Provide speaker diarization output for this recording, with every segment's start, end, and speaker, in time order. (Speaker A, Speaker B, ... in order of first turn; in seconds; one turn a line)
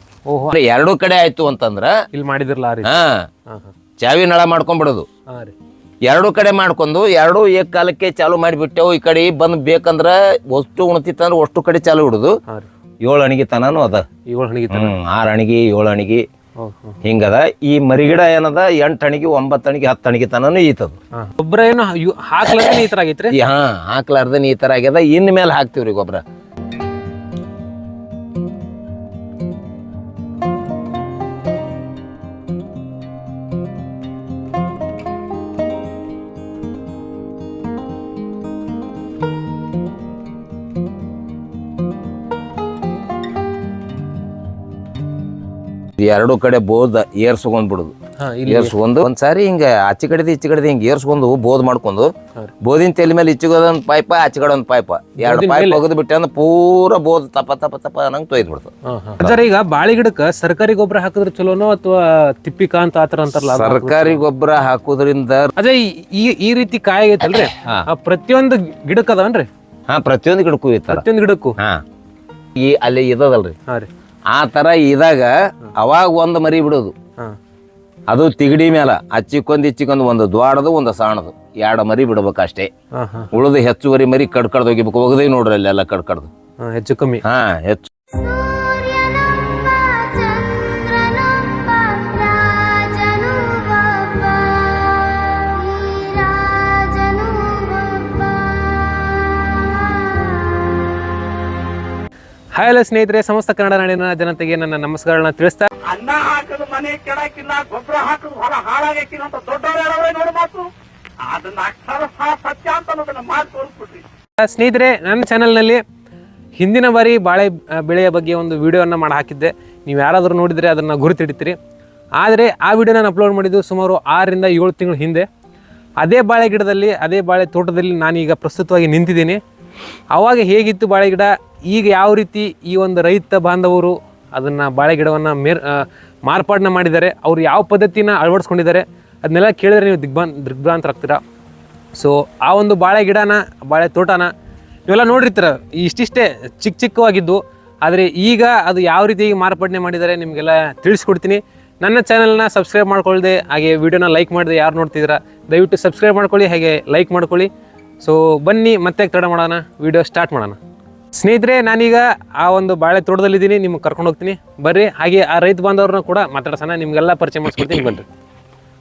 Speaker A: 0.3-0.6
Speaker B: 0.5-1.9
Speaker A: 2.1-2.9
Speaker B: 2.8-3.3
Speaker A: 3.5-3.7
Speaker B: 4.0-5.1
Speaker A: 5.3-5.5
Speaker B: 6.1-12.4
Speaker B: 13.0-14.1
Speaker A: 14.3-15.0
Speaker B: 14.7-16.2
Speaker A: 16.6-17.0
Speaker B: 17.0-21.0
Speaker A: 21.1-23.4
Speaker B: 23.3-26.2
Speaker B: 46.0-47.9
Speaker A: 48.2-48.8
Speaker B: 48.5-52.1
Speaker B: 52.6-59.4
Speaker A: 55.2-55.8
Speaker A: 58.9-64.2
Speaker B: 63.4-65.5
Speaker A: 65.6-69.5
Speaker B: 69.9-71.0
Speaker A: 70.9-71.6
Speaker B: 72.6-73.5
Speaker B: 74.3-76.9
Speaker B: 78.1-82.7
Speaker A: 82.9-83.3
Speaker B: 83.3-86.3
Speaker A: 86.6-87.2
Speaker B: 87.2-87.9
Speaker C: 88.7-89.0
Speaker A: 89.1-89.7
Speaker C: 90.2-93.2
Speaker A: 93.2-93.7
Speaker C: 93.7-94.5
Speaker C: 95.6-98.5
Speaker A: 102.5-105.7
Speaker C: 105.9-110.7
Speaker C: 111.3-114.0
Speaker A: 114.4-115.8
Speaker A: 116.6-121.6
Speaker A: 122.2-125.3
Speaker A: 126.0-129.4
Speaker A: 130.1-141.2
Speaker A: 141.9-144.3
Speaker A: 144.9-160.6
Speaker A: 161.1-168.1